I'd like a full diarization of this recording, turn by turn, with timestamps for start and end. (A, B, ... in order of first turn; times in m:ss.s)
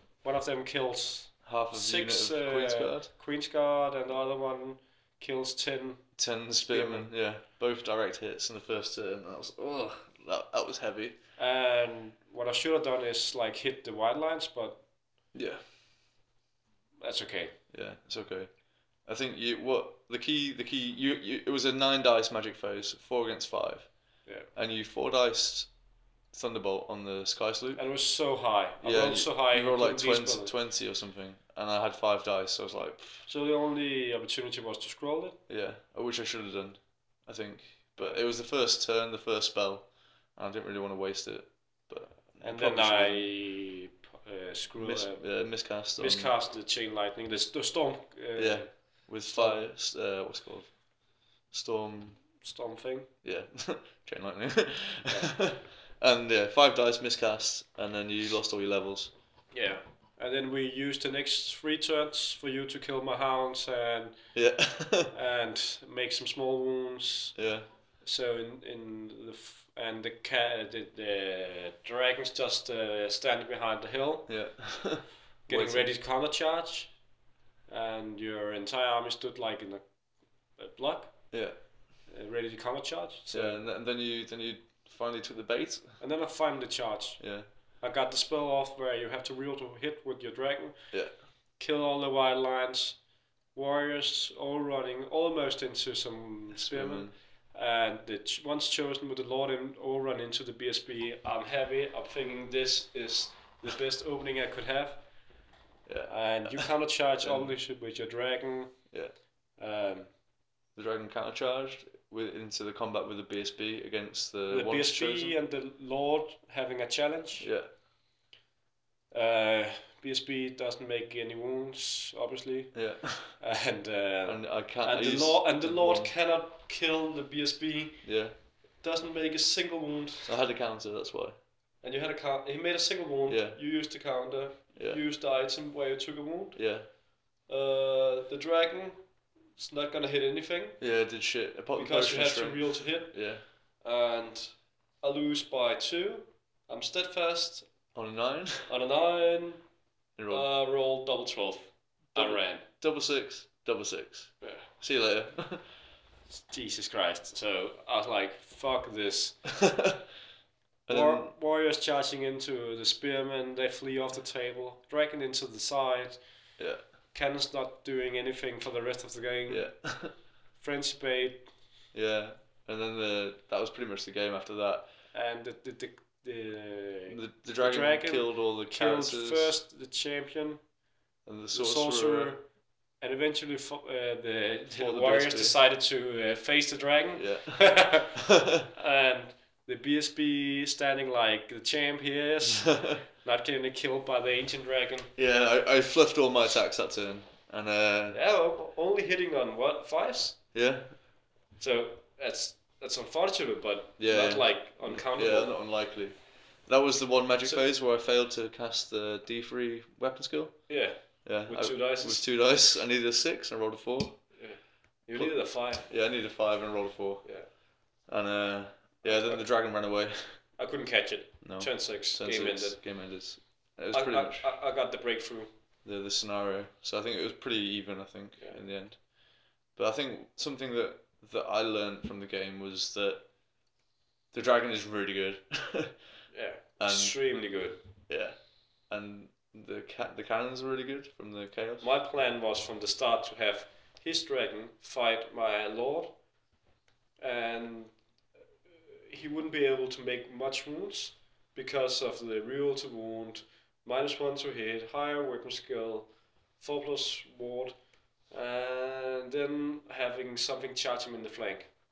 0:00.2-0:07.1 A
0:01.4-0:03.1 B
0:06.2-0:11.2 B
0:11.4-0:14.9 A
0:15.3-0:15.7 B
0:17.0-0:17.6 A
0:17.7-0:25.8 B
0:24.2-0:24.5 A
0:26.3-0:27.8 B
0:27.8-0:30.5 A
0:28.8-0:33.2 B
0:33.3-0:35.4 A
0:35.5-0:43.3 B
0:42.4-0:49.6 A
0:44.8-0:46.4 B
0:48.4-0:52.3 B
0:52.4-0:53.1 A
0:53.2-0:59.1 B
0:55.1-0:55.3 A
0:59.5-1:04.6 A
1:04.3-1:05.1 B
1:05.1-1:07.4 A
1:07.4-1:07.7 B
1:07.9-1:14.4 A
1:14.3-1:15.9 B
1:15.5-1:17.0 A
1:17.7-1:21.5 A
1:21.3-1:21.6 B
1:22.1-1:23.6 A
1:23.3-1:26.0 B
1:26.0-1:30.9 A
1:27.2-1:27.5 B
1:31.6-1:45.3 A
1:36.5-1:37.2 B
1:45.9-1:47.6 B
1:46.1-1:50.1 A
1:48.9-1:49.2 B
1:50.7-1:55.4 B
1:54.5-1:57.5 A
1:57.4-1:57.7 B
1:59.1-2:10.3 A
2:02.7-2:03.4 B
2:04.2-2:06.1 B
2:08.0-2:08.4 B
2:10.3-2:11.4 B
2:11.8-2:20.9 A
2:13.3-2:13.6 B
2:14.8-2:15.0 B
2:16.6-2:16.9 B
2:20.8-2:23.4 B
2:21.7-2:27.8 A
2:27.9-2:28.7 B
2:28.7-2:29.7 A
2:30.2-2:30.5 B
2:30.3-2:32.7 A
2:32.1-2:35.7 B
2:34.4-2:34.7 A
2:36.4-2:39.6 A
2:39.6-2:40.0 B
2:40.9-2:41.3 B
2:40.9-2:46.6 A
2:47.1-2:51.5 A
2:49.5-2:50.2 B
2:51.9-2:54.9 B
2:55.1-3:00.7 A
2:57.1-2:59.6 B
3:01.2-3:02.4 B
3:01.5-3:15.1 A
3:04.8-3:05.6 B
3:07.2-3:08.6 B
3:12.6-3:13.0 B
3:15.2-3:18.2 B
3:18.1-3:20.4 A
3:20.5-3:21.0 B
3:21.6-3:25.6 A
3:24.0-3:34.4 B
3:30.7-3:32.2 A
3:34.3-3:35.9 A
3:35.2-3:40.6 B
3:37.2-3:37.5 A
3:39.0-3:39.5 A
3:40.6-3:42.8 A
3:41.4-3:44.5 B
3:43.9-3:45.5 A
3:45.8-3:53.3 B
3:54.3-3:56.0 B
3:56.3-3:57.8 A
3:56.8-3:57.2 B
3:58.1-4:01.9 B
4:01.8-4:06.5 A
4:07.2-4:08.1 A
4:08.7-4:21.7 A